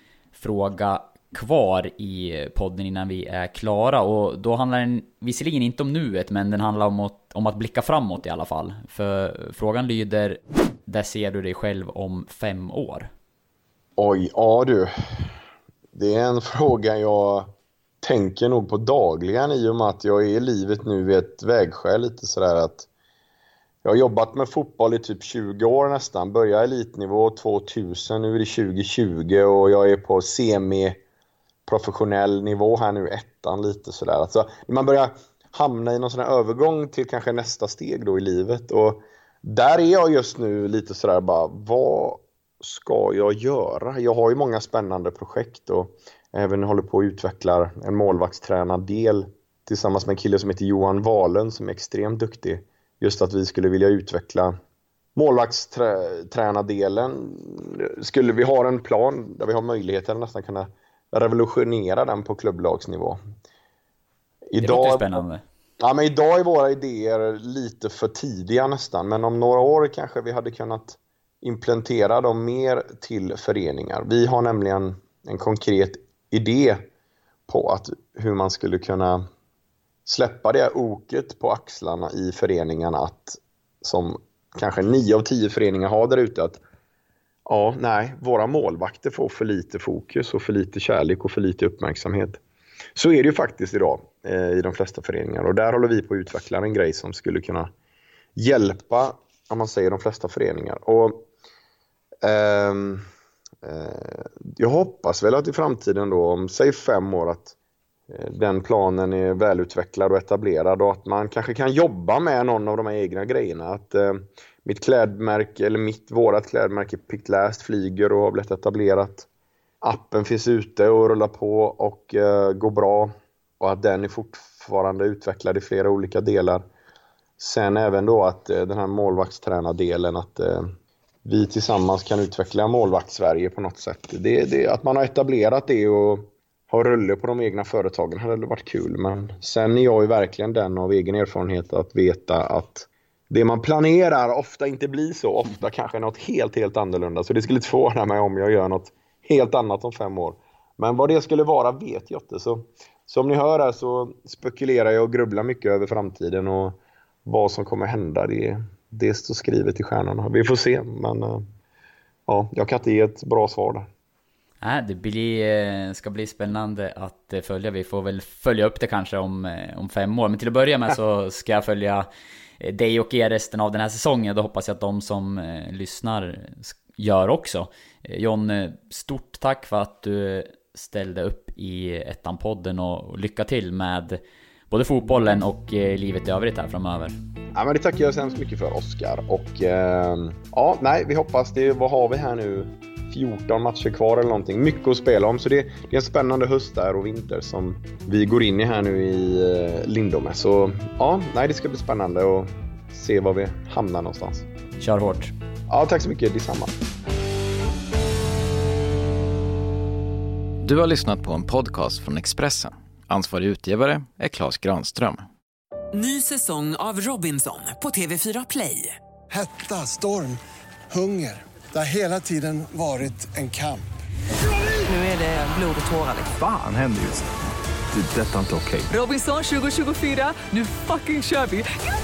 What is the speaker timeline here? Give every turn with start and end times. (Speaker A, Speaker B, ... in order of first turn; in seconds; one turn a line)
Speaker A: 0.3-13.1
Speaker B: 14.0-15.3
Speaker B: 15.9-22.9
Speaker B: 23.8-31.0
Speaker B: 31.6-54.5
Speaker B: 55.1-63.2
Speaker B: 64.5-65.2
Speaker A: 64.6-65.4
Speaker B: 65.8-76.8
Speaker B: 77.5-79.2
Speaker B: 80.0-86.6
Speaker B: 87.5-92.4
Speaker B: 92.9-97.7
Speaker B: 98.3-101.3
Speaker B: 102.2-103.0
Speaker B: 103.6-107.5
Speaker B: 108.1-119.3
Speaker B: 119.8-126.6
Speaker B: 127.4-130.7
Speaker B: 131.2-161.4
Speaker B: 162.3-163.9
Speaker A: 164.6-172.1
Speaker A: 172.6-184.2
Speaker A: 184.7-187.2
Speaker B: 187.5-204.5
Speaker A: 204.8-205.3
Speaker B: 205.7-206.7
Speaker C: 210.6-215.3
Speaker D: 215.9-219.0
Speaker E: 219.3-223.9
Speaker D: 224.8-226.3
Speaker F: 226.3-227.3
Speaker F: 227.9-228.9
Speaker D: 228.9-231.6